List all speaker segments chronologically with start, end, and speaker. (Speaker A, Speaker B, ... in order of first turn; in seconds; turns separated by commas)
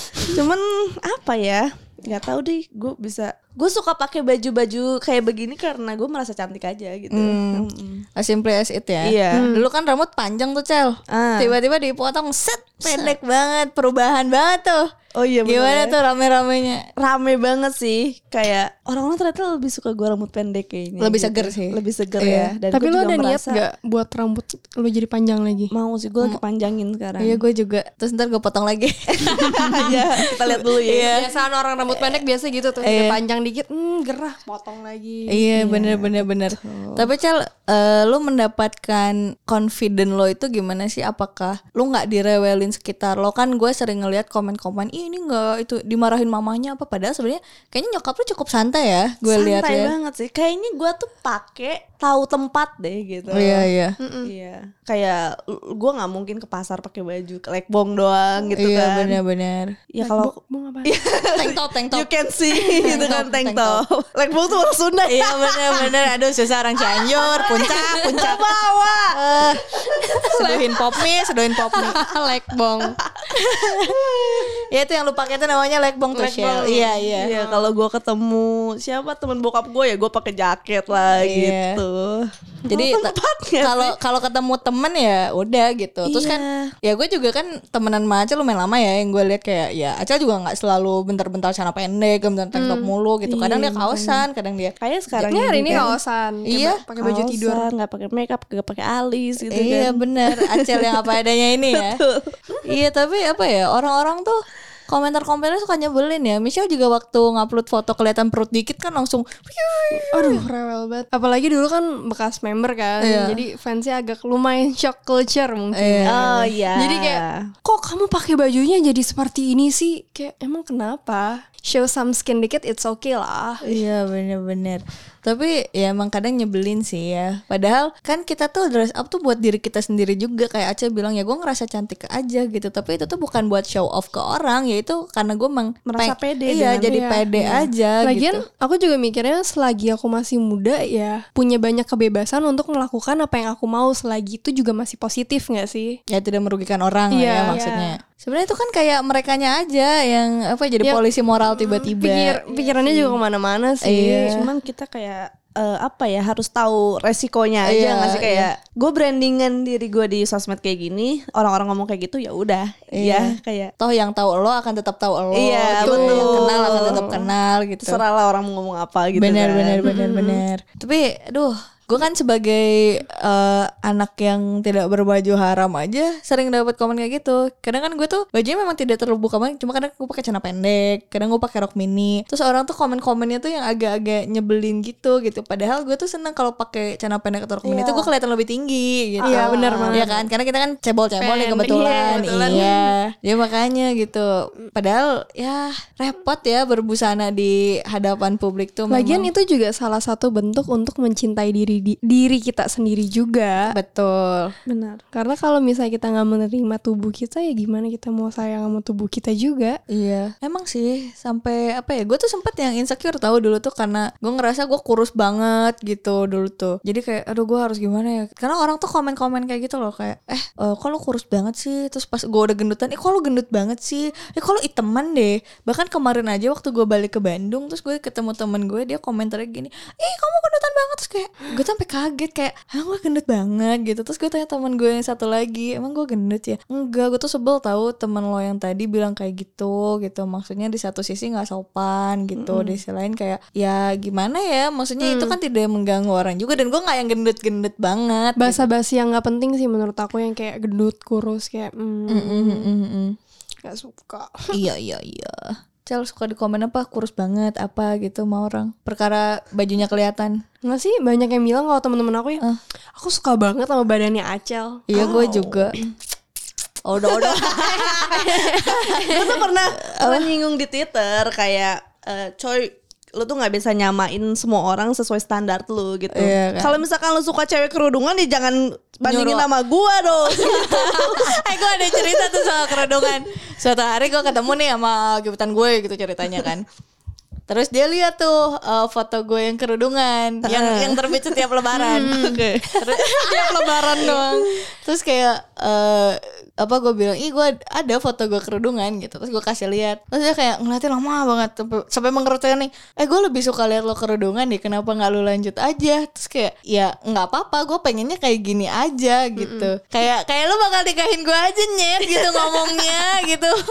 Speaker A: 0.3-8.1, Speaker B: 7.1-14.8, Speaker A: 9.0-9.5, Speaker C: 9.3-9.7, Speaker A: 11.1-11.5, Speaker A: 12.8-13.2, Speaker A: 15.2-16.0, Speaker B: 15.4-16.9, Speaker A: 17.0-23.6, Speaker B: 21.0-22.5, Speaker C: 22.7-25.7, Speaker A: 25.7-27.4, Speaker B: 27.2-31.3, Speaker A: 29.5-31.1, Speaker C: 31.1-35.9, Speaker B: 31.9-32.2, Speaker B: 32.8-33.2, Speaker B: 35.3-49.9, Speaker A: 35.6-37.1, Speaker A: 49.3-53.7, Speaker B: 53.3-54.0, Speaker C: 54.0-54.3, Speaker A: 54.2-59.2, Speaker B: 58.5-59.7, Speaker A: 59.9-66.0, Speaker C: 60.0-60.9, Speaker B: 61.3-62.1, Speaker B: 62.7-63.8, Speaker C: 62.9-63.1, Speaker B: 65.1-68.4, Speaker A: 66.9-69.2, Speaker B: 69.1-72.0, Speaker C: 70.0-70.8, Speaker C: 71.7-73.0, Speaker A: 72.8-74.6, Speaker B: 73.3-77.5, Speaker C: 76.1-77.6, Speaker A: 77.1-84.0, Speaker B: 81.1-81.8, Speaker B: 82.7-95.9, Speaker A: 86.0-86.7, Speaker C: 92.5-92.9, Speaker A: 93.2-94.2, Speaker A: 94.8-95.9, Speaker C: 95.3-97.7, Speaker B: 96.5-96.8, Speaker A: 97.0-101.1, Speaker B: 99.5-102.0, Speaker A: 101.7-102.3, Speaker B: 102.7-110.4, Speaker C: 110.1-123.7, Speaker B: 113.0-113.4, Speaker B: 115.7-116.3, Speaker A: 116.0-117.3, Speaker B: 123.7-138.4, Speaker A: 135.9-137.7, Speaker C: 136.8-137.2, Speaker C: 138.0-146.0, Speaker B: 146.1-152.4, Speaker C: 147.1-147.6, Speaker A: 147.5-147.9, Speaker C: 151.6-154.3, Speaker A: 152.5-153.2, Speaker B: 153.8-154.5, Speaker A: 154.3-163.7, Speaker B: 157.6-158.5, Speaker B: 162.9-168.0, Speaker A: 165.4-167.2, Speaker C: 165.7-167.2, Speaker A: 167.8-170.4, Speaker B: 169.2-199.3, Speaker C: 169.8-170.1, Speaker A: 187.6-188.1, Speaker C: 189.2-190.1, Speaker A: 189.2-190.2, Speaker C: 191.2-192.7, Speaker A: 191.6-192.8, Speaker C: 198.9-203.7, Speaker B: 203.7-204.5, Speaker A: 204.7-205.0, Speaker C: 205.1-209.8, Speaker B: 209.9-248.7, Speaker A: 242.4-242.7, Speaker C: 245.0-245.3, Speaker C: 248.4-252.7, Speaker B: 252.1-253.2, Speaker C: 253.6-254.5, Speaker B: 254.5-260.4, Speaker C: 260.6-262.4, Speaker C: 263.0-265.4, Speaker B: 264.9-265.8, Speaker A: 264.9-265.7, Speaker B: 266.9-268.9, Speaker A: 267.1-283.2, Speaker C: 268.1-269.4, Speaker B: 269.8-270.4, Speaker B: 276.1-276.8, Speaker B: 279.1-279.5, Speaker B: 280.3-286.6, Speaker B: 287.5-313.6, Speaker A: 290.4-294.2, Speaker C: 291.9-292.3, Speaker C: 293.2-294.3, Speaker C: 309.4-309.7, Speaker A: 312.1-313.0